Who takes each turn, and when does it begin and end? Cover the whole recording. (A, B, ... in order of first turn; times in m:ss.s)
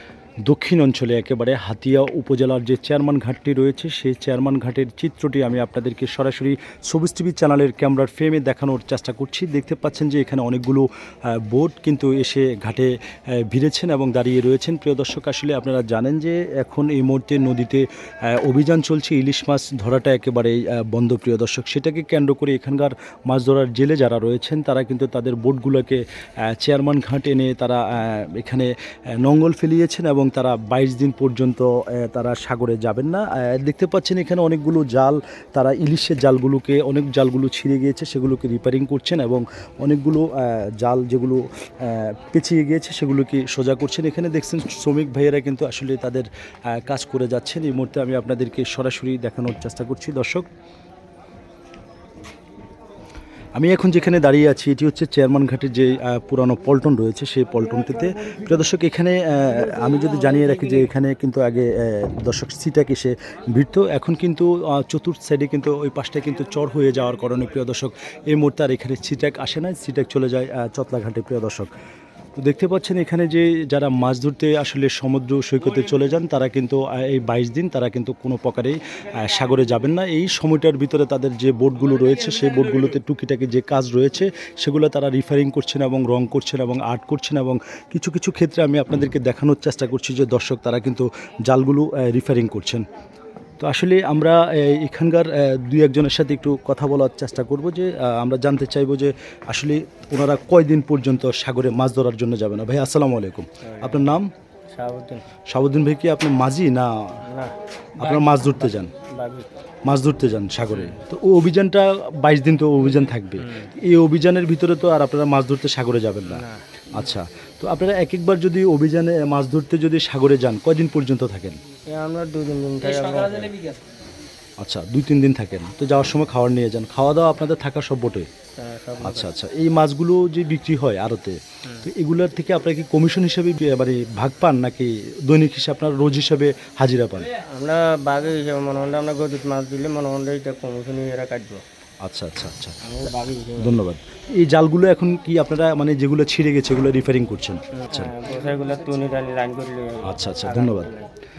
0:00.4-0:50.5 A
0:53.6-1:11.7 A
1:12.4-1:32.8 A
1:33.6-1:44.3 A
1:43.6-1:44.0 B
1:44.7-1:45.2 B
1:45.5-1:47.2 A
1:47.2-1:49.5 B
1:48.0-1:48.9 A
1:49.8-2:01.6 A
1:50.7-1:51.0 B
1:53.4-1:53.7 B
1:56.3-1:57.1 B
2:01.9-2:03.8 B
2:04.6-2:08.3 A
2:08.6-2:09.3 B
2:09.0-2:17.4 A
2:17.3-2:21.6 B
2:22.0-2:22.8 A
2:22.8-2:23.8 B
2:23.6-2:28.1 A
2:27.7-2:31.1 B
2:30.0-2:30.9 A